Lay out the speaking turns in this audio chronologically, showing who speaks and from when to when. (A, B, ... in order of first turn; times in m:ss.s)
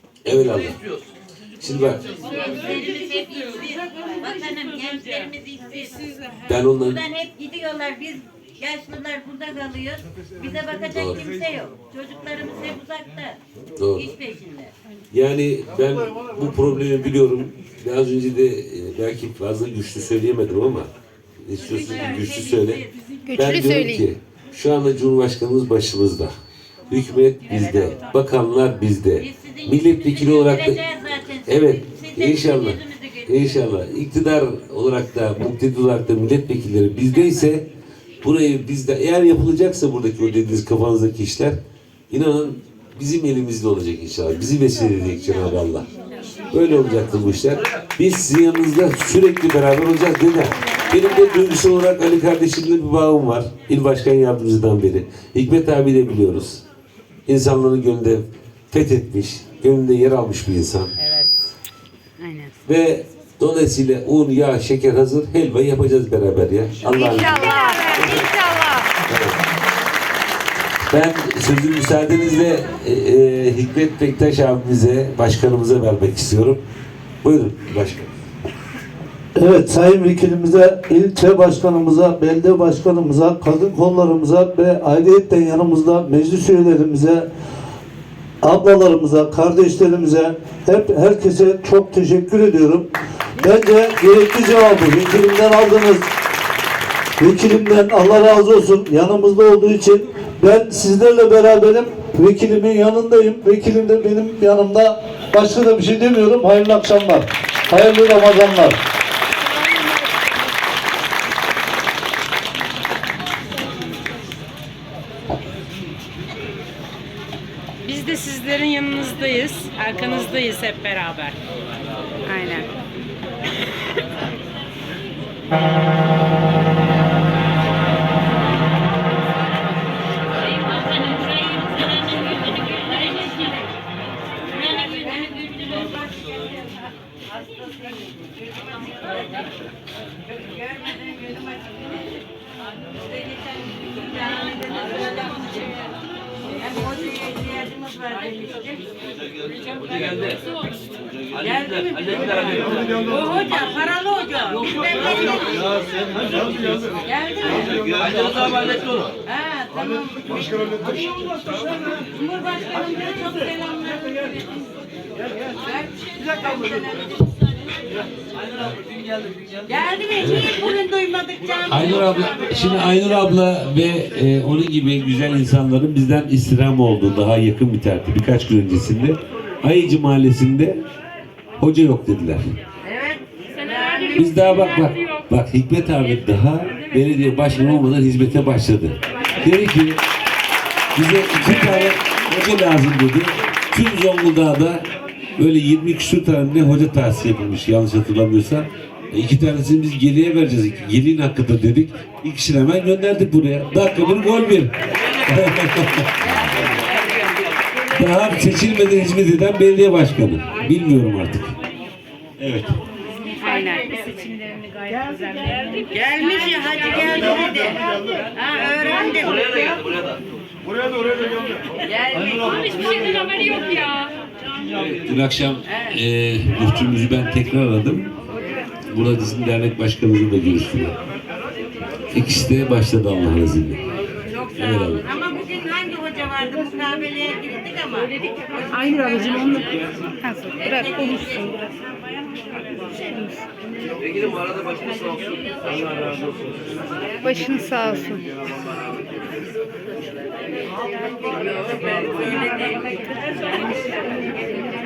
0:00.2-0:00.8 A
0:00.3-0:01.1 B
0:01.6-0:02.0 A
0:02.2-0:13.4 C
0:06.4-0:07.0 A
0:10.9-0:11.2 A
0:13.8-0:14.1 A
0:14.0-0:14.7 C
0:15.1-0:20.9 A
0:21.4-0:26.3 A
0:21.6-0:22.9 C
0:23.2-0:24.0 D
0:26.9-0:30.8 A
0:29.2-0:33.6 C
0:31.4-0:37.7 A
0:38.2-0:41.6 A
0:42.1-0:45.9 A
0:46.5-0:56.6 A
0:47.5-0:47.9 B
0:57.3-1:00.9 A
1:01.0-1:01.3 D
1:02.2-1:02.5 D
1:02.6-1:08.3 A
1:06.9-1:08.7 D
1:07.2-1:08.2 C
1:09.1-1:09.4 A
1:10.8-1:16.6 A
1:17.2-1:18.1 A
1:19.4-1:27.2 E
1:28.4-1:36.0 E
1:37.2-1:48.8 E
1:57.8-2:01.4 D
2:02.3-2:02.7 D
2:11.1-2:13.5 C
2:14.6-2:16.5 C
2:20.5-2:21.8 C
2:23.3-2:25.5 C
2:26.6-2:28.8 C
2:29.8-2:30.6 B
2:31.3-2:33.2 B
2:31.7-2:32.2 C
2:33.1-2:35.7 C
2:36.2-2:36.8 B
2:37.0-2:37.7 C
2:37.7-2:39.2 B
2:39.3-2:40.3 C
2:40.3-2:41.8 B
2:42.1-2:44.5 C
2:45.6-2:47.4 C
2:49.7-2:51.8 C
2:50.1-2:50.6 A
2:51.7-3:00.8 A
3:01.6-3:02.4 A
3:02.9-3:03.1 C
3:03.7-3:04.1 C
3:04.1-3:10.0 A
3:10.9-3:14.8 A
3:15.4-3:24.7 A
3:24.9-3:25.8 B
3:25.3-3:26.7 A
3:26.6-3:27.4 B
3:27.9-3:31.5 A
3:32.4-3:32.8 A
3:33.4-3:36.0 D
3:35.9-3:37.8 C
3:38.4-3:39.4 C
3:38.9-3:40.2 B
3:42.1-3:42.6 C
3:42.8-3:44.1 D
3:44.7-3:48.1 A
3:48.9-3:51.0 A
3:52.1-3:53.8 A
3:54.5-3:55.1 A
3:54.6-3:59.6 C
3:58.8-4:01.5 D
4:00.6-4:01.7 C
4:03.0-4:03.4 D
4:04.0-4:06.6 B
4:07.2-4:08.2 D
4:08.4-4:09.4 B
4:11.4-4:12.7 B